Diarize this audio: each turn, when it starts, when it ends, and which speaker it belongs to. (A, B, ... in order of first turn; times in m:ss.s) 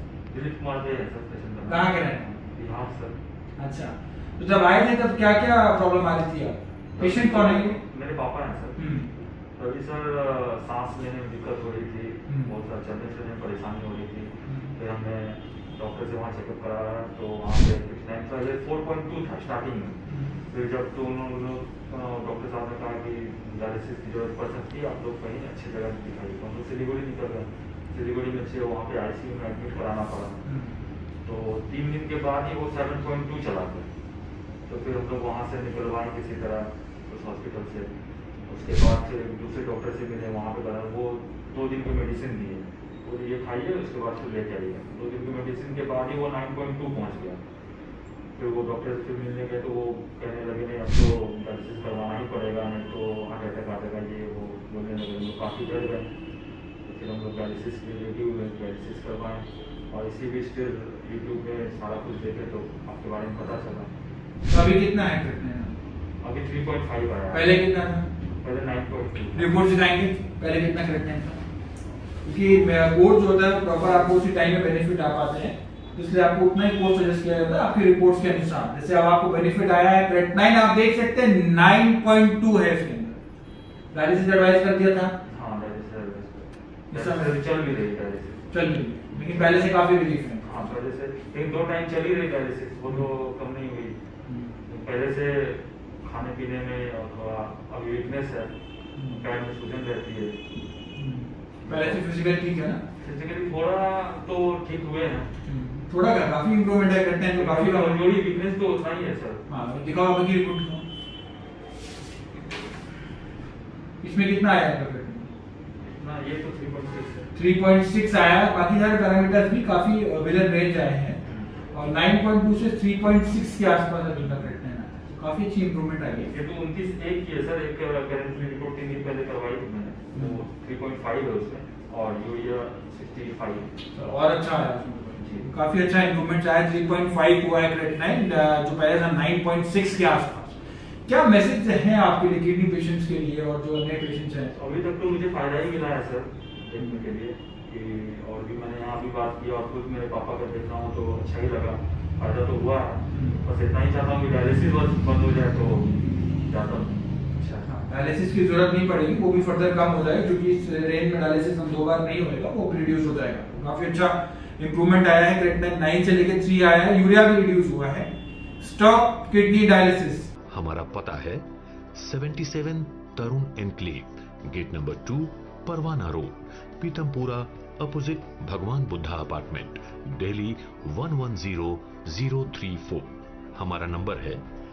0:00.3-0:03.2 A
0:01.7-0:02.3 B
0:03.6-0:07.8 B
0:07.0-0:08.8 A
0:08.8-0:09.1 B
0:09.6-0:30.4 A
0:14.4-0:14.7 B
0:20.1-0:20.4 B
0:30.4-0:30.7 B
0:31.2-0:33.9 A
0:34.7-0:37.9 A
0:38.5-0:47.4 A
0:48.4-0:56.1 A
0:56.8-1:03.9 A
1:04.5-1:05.8 B
1:06.2-1:07.6 A
1:07.3-1:08.1 B
1:08.4-1:09.6 A
1:09.3-1:11.4 B
1:12.2-1:23.2 B
1:23.9-1:25.1 B
1:25.3-1:28.5 A
1:26.9-1:27.3 B
1:28.5-1:30.5 B
1:29.1-1:29.6 A
1:30.4-1:34.0 A
1:34.3-1:34.5 B
1:34.7-1:38.5 A
1:39.0-1:39.2 B
1:39.1-1:40.4 A
1:40.9-1:42.8 B
1:41.6-1:42.0 A
1:43.0-1:45.3 A
1:45.4-1:48.0 B
1:47.3-1:49.4 A
1:49.5-1:50.8 B
1:54.0-1:55.3 B
1:55.8-1:57.3 A
1:57.3-2:01.2 B
2:01.2-2:01.5 A
2:01.7-2:06.3 B
2:06.2-2:13.7 A
2:10.1-2:10.4 B
2:13.9-2:24.5 B
2:15.2-2:15.5 A
2:24.5-2:35.9 A
2:26.8-2:27.1 B
2:33.1-2:33.4 B
2:36.4-2:37.0 A
2:37.4-2:50.3 B
2:50.5-3:04.4 C